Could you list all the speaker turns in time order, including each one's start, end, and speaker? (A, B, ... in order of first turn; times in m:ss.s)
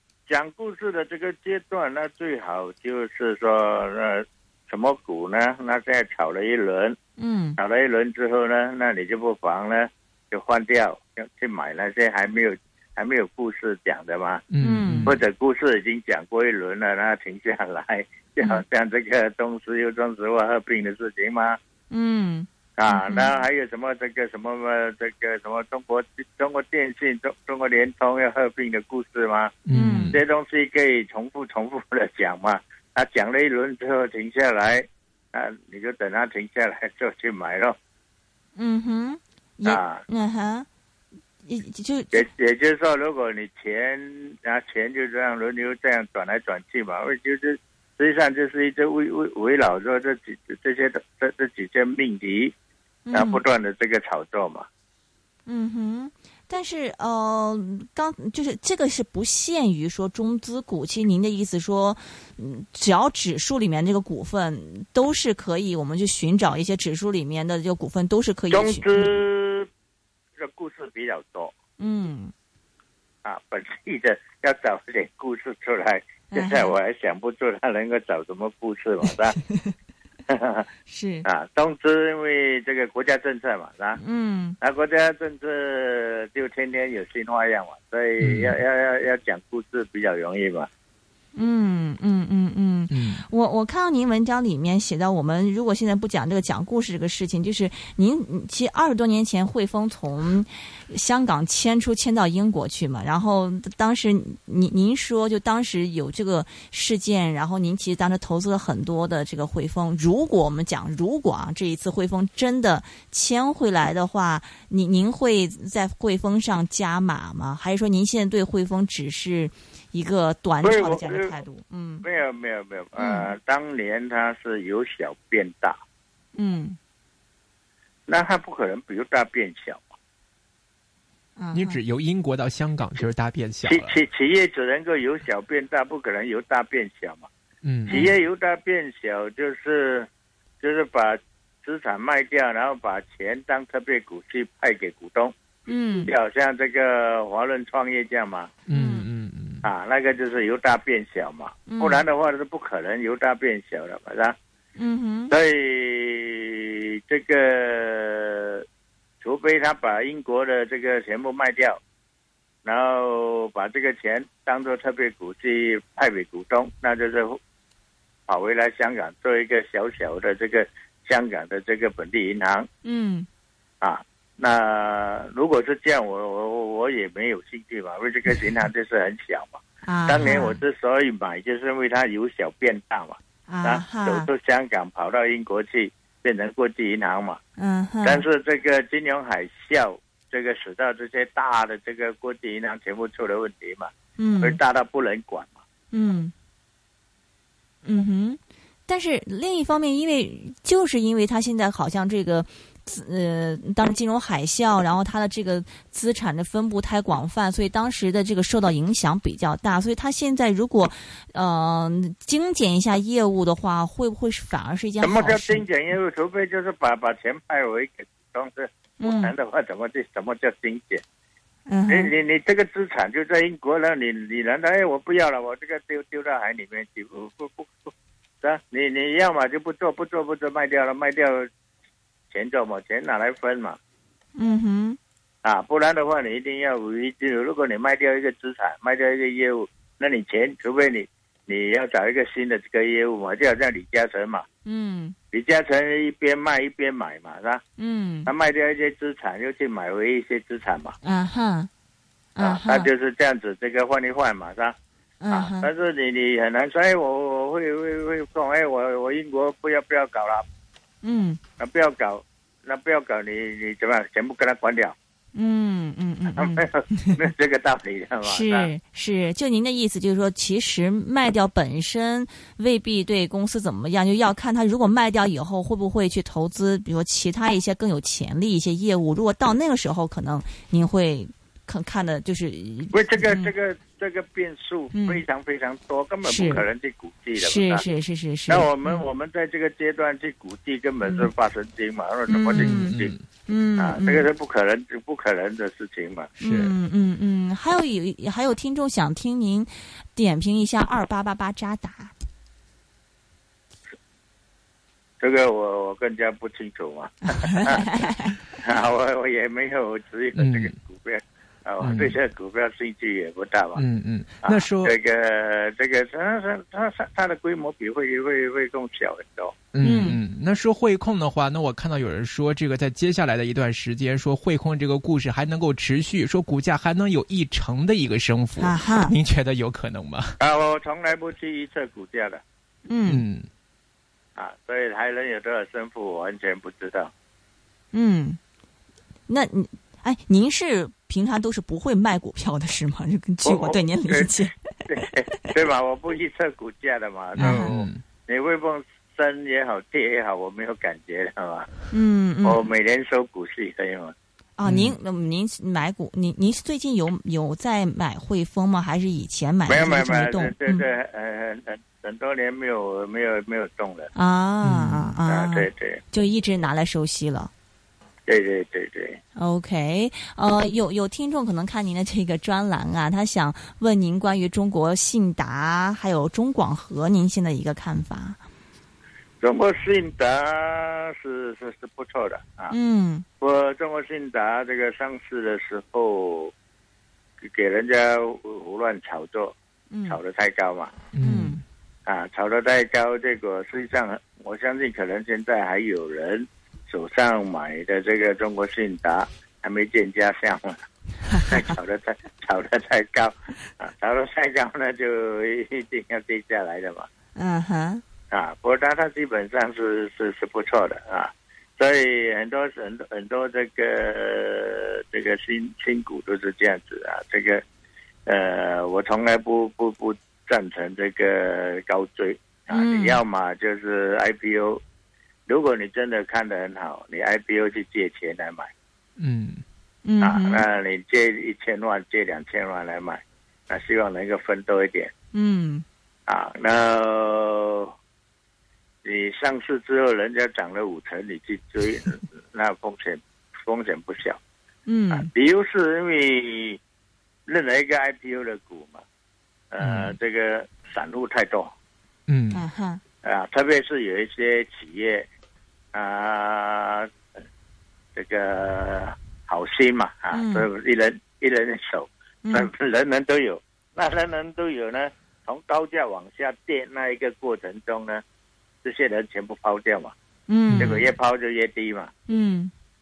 0:00.3-0:07.0 A
0:07.2-0:07.6 B
0:07.6-0:14.4 A
0:14.5-0:15.1 C
0:14.6-0:15.2 B
0:15.1-0:21.6 A
0:21.9-0:23.3 B
0:22.8-0:29.5 A
0:29.7-0:30.2 C
0:29.7-0:30.2 B
0:30.1-0:37.8 A
0:38.6-0:40.7 B
0:39.6-0:40.0 A
0:41.4-0:42.3 B
0:42.1-0:52.5 A
0:53.1-0:53.4 B
0:53.1-0:54.7 A
0:55.5-1:08.9 B
1:08.5-1:09.7 A
1:10.4-1:11.5 A
1:11.8-1:12.3 B
1:13.2-1:19.4 A
1:16.3-1:16.7 B
1:20.3-1:20.6 A
1:20.9-1:21.2 B
1:21.2-1:24.0 A
1:24.0-1:24.6 B
1:24.6-1:30.7 A
1:28.2-1:28.6 C
1:31.4-2:02.0 B
1:32.9-1:33.2 C
2:00.6-2:01.4 A
2:02.0-2:05.8 A
2:03.0-2:03.3 B
2:06.4-2:06.8 B
2:08.1-2:10.0 A
2:11.4-2:11.8 B
2:11.5-2:13.9 C
2:13.6-2:17.3 A
2:17.6-2:18.0 C
2:17.9-2:20.1 A
2:20.6-2:25.3 A
2:25.7-2:26.1 B
2:26.1-2:28.5 A
2:28.7-2:29.6 C
2:28.7-2:29.1 B
2:29.6-2:34.4 A
2:31.7-2:32.0 B
2:34.8-2:35.3 B
2:35.3-2:38.6 A
2:39.2-2:41.8 A
2:42.6-2:47.4 A
2:48.3-2:52.7 A
2:52.8-2:53.3 B
2:53.8-3:07.4 A
2:59.8-3:00.6 B
3:03.5-3:04.3 B
3:07.6-3:08.2 B
3:08.0-3:15.6 A
3:14.2-3:14.6 B
3:15.9-3:16.3 B
3:17.8-3:35.6 B
3:35.0-3:41.0 A
3:39.0-3:39.3 B
3:41.7-3:42.1 B
3:41.9-3:47.9 A
3:48.4-3:51.5 A
3:52.3-3:53.8 A
3:54.4-3:55.0 B
3:55.4-4:04.5 A
4:04.6-4:05.2 B
4:05.3-4:07.6 A
4:07.8-4:08.3 B
4:08.3-4:11.0 A
4:11.0-4:11.7 B
4:12.4-4:12.9 B
4:12.4-4:14.8 A
4:15.2-4:15.7 B
4:15.3-4:20.4 A
4:21.0-4:21.4 B
4:21.6-4:25.0 A
4:25.4-4:27.2 B
4:26.3-4:28.7 A
4:28.2-4:43.5 B
4:42.9-4:47.9 A
4:44.9-4:45.2 B
4:46.2-4:46.6 B
4:47.4-4:49.0 B
4:48.5-4:53.1 A
4:51.0-4:51.3 B
4:52.3-4:53.0 B
4:52.5-4:53.2 C
4:53.5-4:54.3 B
4:53.8-4:56.3 A
4:56.4-4:56.7 C
4:56.4-5:02.1 B
5:05.2-5:07.9 A
5:07.5-5:08.4 B
5:08.6-5:13.8 A
5:10.4-5:10.7 C
5:11.8-5:12.1 C
5:13.8-5:14.9 C
5:14.4-5:19.6 A
5:19.7-5:30.4 C
5:19.8-5:20.2 B
5:28.6-5:29.2 B
5:30.4-5:32.4 A
5:32.9-5:33.2 B
5:33.1-5:33.5 C
5:34.4-5:37.1 A
5:37.9-5:38.4 B
5:39.3-5:45.1 B
5:43.4-5:51.7 A
5:47.4-5:48.0 C
5:47.4-5:47.7 B
5:51.9-5:52.6 B
5:52.4-5:54.1 A
5:54.6-6:00.8 B
5:54.6-5:55.0 C
5:59.7-6:04.1 A
6:04.2-6:07.5 B
6:04.6-6:05.1 C
6:05.3-6:06.0 A
6:08.3-6:09.2 A
6:09.4-6:18.4 B
6:19.4-6:22.8 A
6:22.7-6:23.2 B
6:23.4-6:26.5 A
6:27.5-6:29.6 A
6:29.9-6:30.2 B
6:30.1-6:30.9 A
6:31.1-6:31.6 C
6:31.2-6:31.6 B
6:32.1-6:40.8 A
6:41.4-6:47.1 A
6:47.4-6:48.0 B
6:48.3-6:57.6 A
6:58.3-7:04.8 A
7:02.7-7:03.2 B
7:05.5-7:08.7 A
7:09.2-7:09.6 C
7:10.0-7:10.6 B
7:10.2-7:15.1 A
7:15.3-7:15.8 B
7:16.3-7:17.9 A
7:19.0-7:24.4 A
7:24.9-7:25.3 B
7:25.1-7:26.8 A
7:27.5-7:29.0 A
7:29.7-7:31.7 A
7:29.8-7:30.1 C
7:32.3-7:32.6 C
7:32.5-7:33.0 B
7:33.2-7:35.3 A
7:35.9-7:37.1 A
7:38.2-7:48.2 A
7:40.3-7:40.7 B
7:42.4-7:42.7 B
7:48.8-7:50.1 A
7:50.5-7:51.0 B
7:50.7-7:51.0 C
7:50.8-7:52.1 A
7:52.3-7:52.7 B